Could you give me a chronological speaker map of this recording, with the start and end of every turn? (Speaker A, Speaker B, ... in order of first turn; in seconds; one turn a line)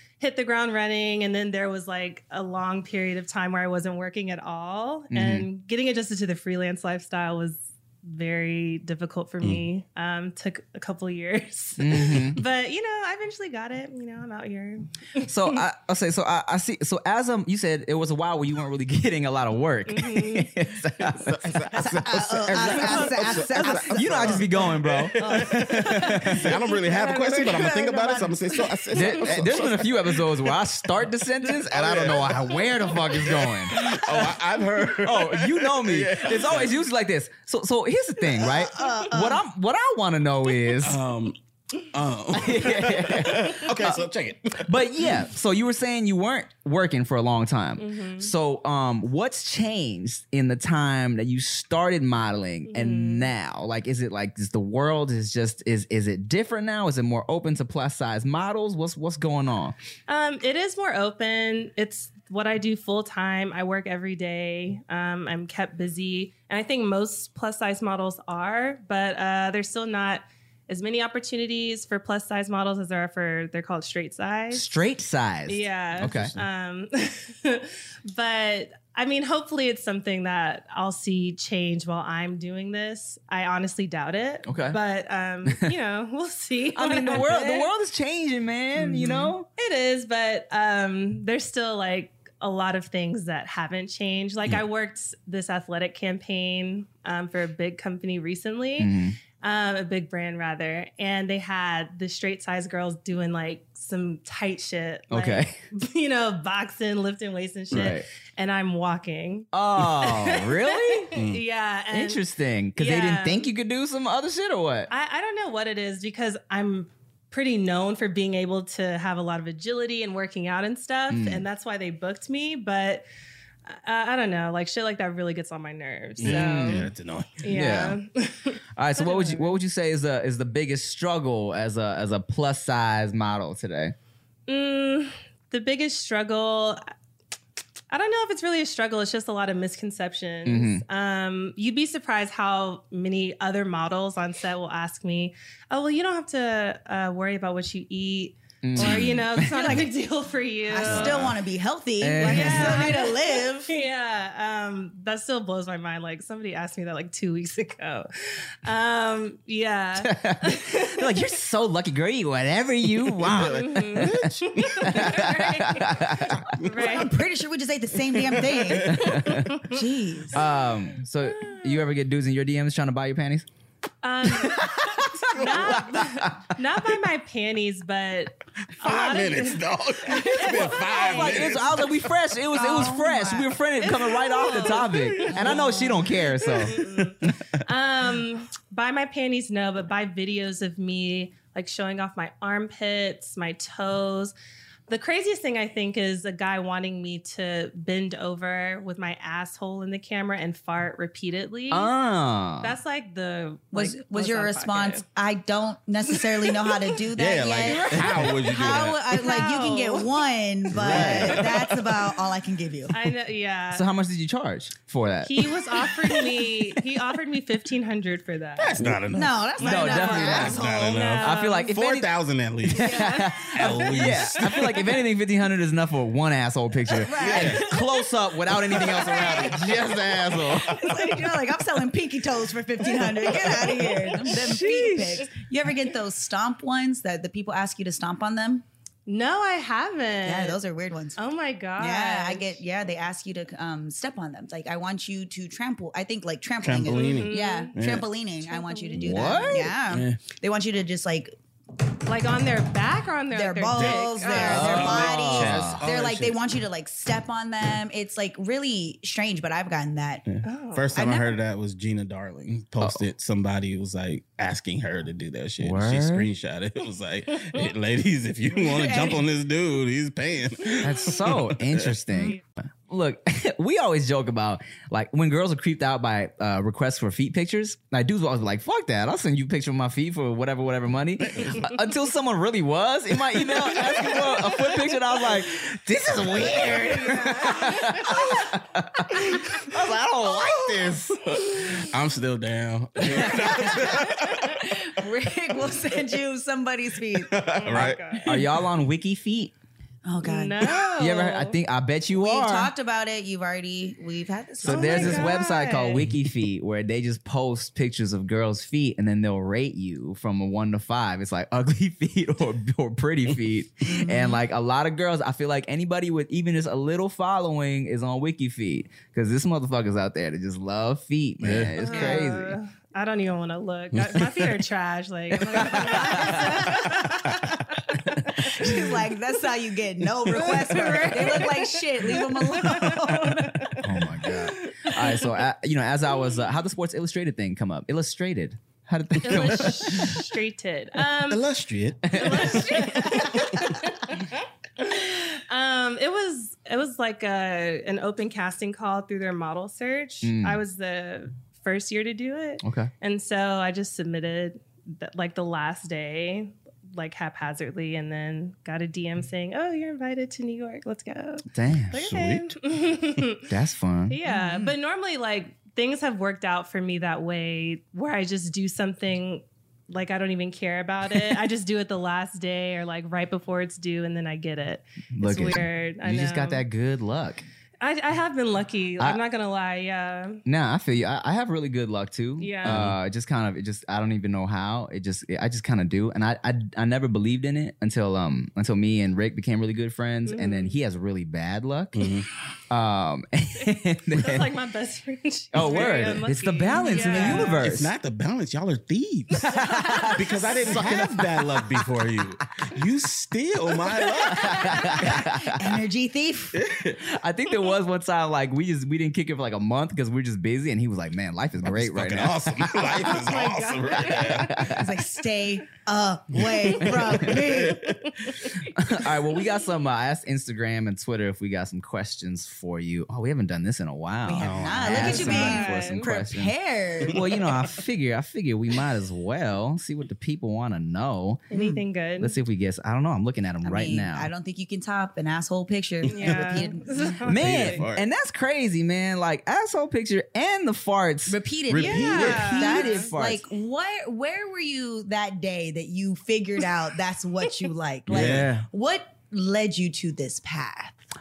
Speaker A: 0.2-15.6
Speaker B: 5.1-5.5
Speaker B: 11.8-12.4
Speaker B: 15.2-26.5
Speaker A: 19.9-20.5
Speaker C: 21.2-30.4
Speaker D: 21.7-29.1
Speaker B: 28.9-34.4
Speaker C: 31.6-36.7
Speaker B: 35.0-41.0
Speaker D: 38.3-39.4
Speaker C: 40.8-45.2
Speaker B: 42.3-44.0
Speaker B: 44.6-59.8
Speaker A: 47.8-48.3
Speaker A: 52.7-53.3
Speaker A: 60.1-74.7
Speaker B: 74.5-76.3
Speaker A: 75.5-87.7
Speaker B: 84.5-84.8
Speaker B: 86.8-89.5
Speaker A: 88.8-112.2
Speaker B: 98.8-99.2
Speaker B: 105.1-105.6
Speaker B: 107.7-108.0
Speaker B: 109.5-111.1
Speaker C: 111.2-111.4
Speaker B: 111.9-114.9
Speaker A: 112.8-113.5
Speaker A: 114.9-123.1
Speaker B: 121.1-121.4
Speaker A: 123.7-126.9
Speaker C: 126.2-127.5
Speaker B: 126.2-126.9
Speaker A: 127.4-129.6
Speaker B: 127.5-128.0
Speaker B: 128.8-133.9
Speaker A: 134.5-136.8
Speaker A: 137.9-151.2
Speaker B: 140.4-140.8
Speaker B: 148.6-149.8
Speaker C: 148.8-149.2
Speaker D: 149.5-149.9
Speaker D: 150.7-153.7
Speaker C: 150.8-151.4
Speaker B: 152.0-153.0
Speaker A: 152.2-161.1
Speaker B: 160.0-166.4
Speaker C: 163.2-165.3
Speaker A: 163.5-167.1
Speaker C: 166.3-167.1
Speaker D: 166.8-170.4
Speaker C: 168.3-169.0
Speaker B: 168.8-169.5
Speaker A: 169.0-169.8
Speaker B: 170.3-173.5
Speaker A: 171.2-171.8
Speaker A: 174.0-181.8
Speaker B: 174.2-176.5
Speaker C: 178.8-181.9
Speaker B: 181.0-186.9
Speaker D: 182.5-183.5
Speaker A: 183.8-194.3
Speaker C: 185.2-185.5
Speaker C: 186.7-187.1
Speaker A: 194.9-201.9
Speaker B: 201.7-202.8
Speaker A: 202.6-205.1
Speaker D: 203.7-212.9
Speaker A: 206.2-207.0
Speaker C: 207.2-209.0
Speaker A: 209.2-210.1
Speaker C: 210.7-212.0
Speaker A: 210.9-211.4
Speaker A: 212.9-213.9
Speaker B: 213.7-216.8
Speaker A: 215.2-218.8
Speaker C: 218.6-219.5
Speaker D: 219.1-221.2
Speaker B: 219.6-220.6
Speaker A: 219.6-221.7
Speaker C: 220.3-224.9
Speaker B: 221.2-222.1
Speaker B: 222.7-230.9
Speaker D: 222.7-224.1
Speaker D: 226.9-227.9
Speaker C: 227.2-227.7
Speaker D: 228.5-238.6
Speaker A: 228.9-229.5
Speaker B: 234.1-235.2
Speaker A: 239.1-240.6
Speaker D: 240.2-241.2
Speaker A: 241.2-242.6
Speaker D: 241.8-251.3
Speaker C: 246.6-248.1
Speaker A: 246.9-247.7
Speaker A: 248.5-249.5
Speaker C: 249.0-250.2
Speaker B: 249.0-249.8
Speaker A: 252.1-254.9
Speaker D: 253.3-260.3
Speaker C: 253.7-256.4
Speaker B: 254.4-255.8
Speaker C: 260.3-272.0
Speaker A: 260.4-260.9
Speaker D: 260.9-261.3
Speaker B: 265.6-266.3
Speaker D: 268.5-269.2
Speaker B: 270.8-291.7
Speaker C: 283.4-284.7
Speaker C: 286.2-286.9
Speaker A: 287.0-288.3
Speaker C: 290.3-294.6
Speaker D: 293.1-297.5
Speaker C: 297.1-298.5
Speaker A: 297.5-298.3
Speaker B: 297.7-299.5
Speaker D: 300.1-300.8
Speaker A: 300.2-301.6
Speaker B: 301.0-302.7
Speaker D: 302.1-305.3
Speaker B: 304.6-322.6
Speaker A: 304.7-306.1
Speaker D: 313.8-314.4
Speaker C: 321.4-321.7
Speaker A: 321.8-328.7
Speaker D: 321.9-322.3
Speaker C: 324.0-324.5
Speaker B: 325.6-326.6
Speaker D: 326.1-326.3
Speaker D: 328.4-333.9
Speaker A: 330.3-334.3
Speaker B: 333.8-340.2
Speaker A: 339.2-341.4
Speaker C: 341.3-343.5
Speaker B: 342.1-343.1
Speaker A: 342.1-363.5
Speaker B: 350.2-350.6
Speaker B: 352.6-352.9
Speaker B: 361.5-362.0
Speaker C: 361.9-362.6
Speaker B: 363.5-364.2
Speaker A: 364.1-376.6
Speaker D: 364.2-364.8
Speaker B: 375.1-377.4
Speaker A: 377.8-380.4
Speaker B: 380.4-392.1
Speaker A: 382.4-382.8
Speaker C: 382.7-383.0
Speaker A: 390.3-390.8
Speaker C: 391.9-392.3
Speaker B: 392.7-394.5
Speaker A: 394.1-397.7
Speaker B: 395.5-397.9
Speaker D: 397.0-397.5
Speaker C: 397.6-405.1
Speaker B: 399.5-401.8
Speaker A: 399.5-400.6
Speaker D: 400.3-401.2
Speaker A: 404.3-405.1
Speaker B: 404.3-405.8
Speaker D: 404.9-406.6
Speaker C: 406.5-407.0
Speaker B: 407.0-413.3
Speaker C: 411.6-414.6
Speaker A: 412.9-414.5
Speaker B: 413.9-414.9
Speaker D: 414.5-418.1
Speaker C: 416.3-418.5
Speaker A: 417.6-418.6
Speaker B: 418.6-426.5
Speaker D: 424.3-427.6
Speaker C: 424.4-425.4
Speaker A: 424.9-426.1
Speaker B: 427.1-431.5
Speaker A: 431.5-432.4
Speaker D: 431.5-431.8
Speaker B: 432.2-434.3
Speaker D: 433.6-437.3
Speaker C: 436.0-436.6
Speaker A: 436.1-437.7
Speaker C: 437.2-438.1
Speaker B: 437.3-443.5
Speaker D: 441.3-451.0
Speaker C: 441.7-442.8
Speaker A: 441.8-443.1
Speaker B: 448.1-448.7
Speaker C: 448.1-448.5